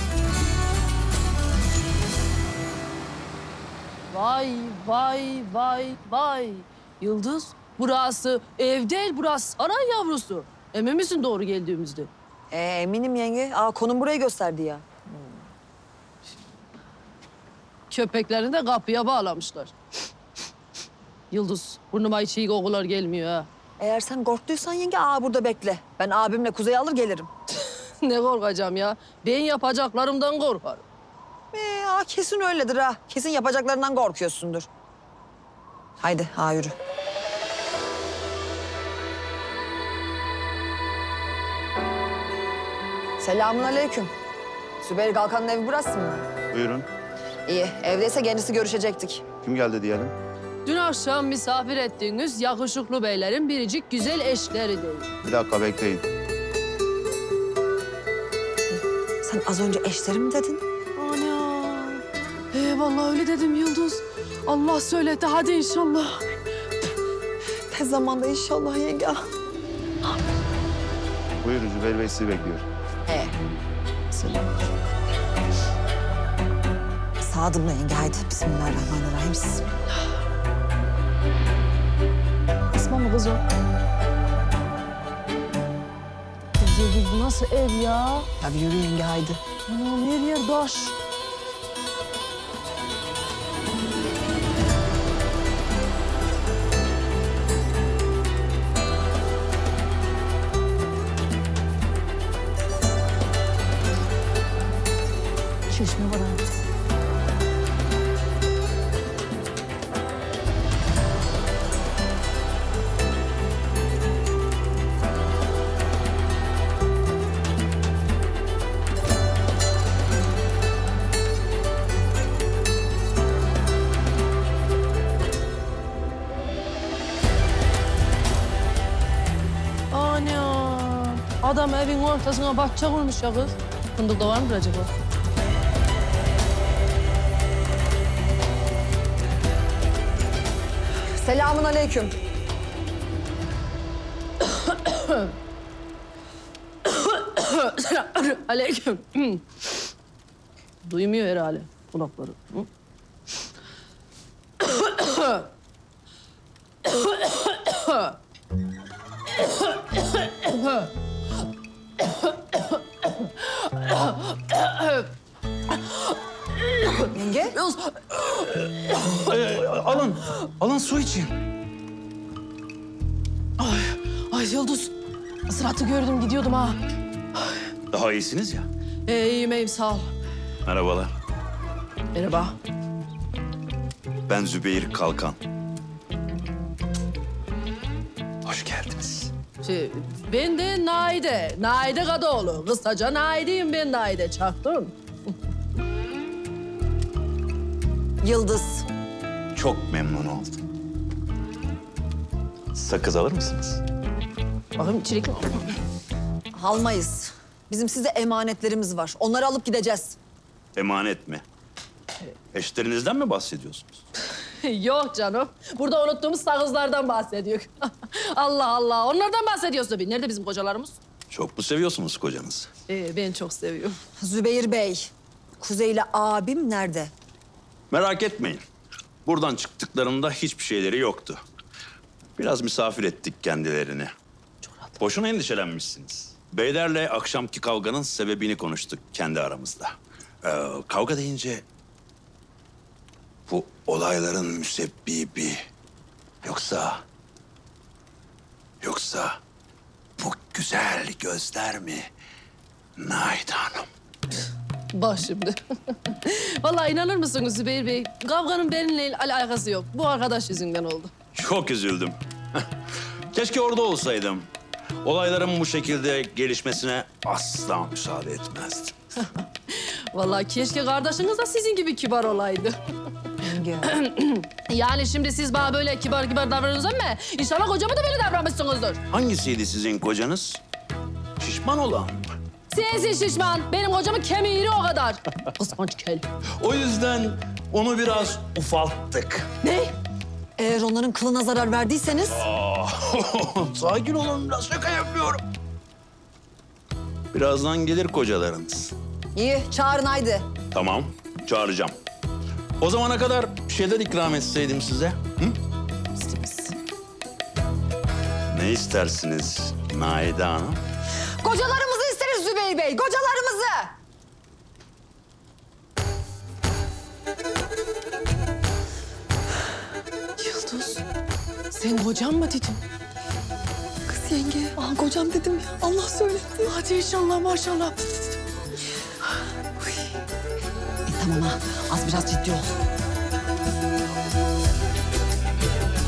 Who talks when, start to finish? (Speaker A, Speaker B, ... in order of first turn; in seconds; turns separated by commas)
Speaker A: 4.1-12.1, Speaker B: 12.5-14.8, Speaker A: 17.9-19.7, Speaker A: 21.3-23.5, Speaker B: 23.8-27.3, Speaker A: 27.5-30.8, Speaker B: 31.5-34.7, Speaker B: 36.0-36.7, Speaker B: 43.2-44.1, Speaker B: 44.8-46.4, Speaker C: 46.5-46.9, Speaker B: 47.5-49.3, Speaker C: 49.3-50.1, Speaker A: 50.6-55.1, Speaker C: 55.2-56.1, Speaker B: 59.2-60.6, Speaker A: 61.0-66.3, Speaker B: 67.7-69.2, Speaker C: 71.4-72.7, Speaker B: 73.1-73.3, Speaker B: 74.1-74.5, Speaker B: 77.2-79.7, Speaker A: 82.7-83.4, Speaker A: 86.5-88.3, Speaker B: 88.4-89.4, Speaker A: 89.7-90.9, Speaker A: 105.7-106.4, Speaker A: 129.9-134.9, Speaker B: 141.2-142.1, Speaker A: 144.4-145.3, Speaker A: 146.8-149.7, Speaker A: 150.8-152.7, Speaker A: 154.6-155.5, Speaker A: 156.8-158.2, Speaker A: 159.3-160.9, Speaker A: 162.0-165.1, Speaker A: 165.7-169.2, Speaker B: 167.1-167.6, Speaker D: 169.2-171.3, Speaker A: 173.6-174.9, Speaker A: 175.5-176.8, Speaker D: 177.9-178.7, Speaker A: 179.1-180.1, Speaker D: 180.6-181.1, Speaker A: 182.1-182.6, Speaker D: 184.3-185.4, Speaker D: 188.4-189.3, Speaker A: 189.6-194.9, Speaker B: 198.2-198.8, Speaker D: 199.5-200.6, Speaker D: 202.7-203.8, Speaker A: 204.8-205.7, Speaker B: 206.5-210.2, Speaker D: 210.8-211.4, Speaker D: 212.5-214.0, Speaker A: 214.4-221.0, Speaker D: 221.3-222.7, Speaker A: 222.9-224.0, Speaker B: 224.2-227.1, Speaker D: 227.9-228.6, Speaker D: 229.2-231.4, Speaker D: 232.4-234.1, Speaker D: 235.0-241.6, Speaker D: 243.5-245.6, Speaker D: 246.4-247.0, Speaker D: 248.8-249.4, Speaker D: 250.2-252.1, Speaker D: 253.0-253.9, Speaker A: 254.9-261.1, Speaker D: 261.3-262.6, Speaker D: 263.3-264.5, Speaker D: 265.0-268.9, Speaker A: 269.7-272.8, Speaker B: 273.4-273.9, Speaker A: 273.8-279.0, Speaker D: 279.1-280.6, Speaker D: 281.4-282.3, Speaker A: 282.7-286.2, Speaker D: 286.6-289.5, Speaker A: 289.6-289.9, Speaker B: 290.6-292.4, Speaker D: 292.3-295.4, Speaker D: 297.3-298.9, Speaker B: 299.3-300.5, Speaker D: 300.7-301.9, Speaker D: 302.8-305.6, Speaker B: 306.2-306.7, Speaker D: 308.5-310.8, Speaker B: 311.4-313.9, Speaker A: 320.4-321.0, Speaker A: 321.7-322.8, Speaker B: 324.1-326.7, Speaker A: 326.6-328.4, Speaker B: 331.1-332.8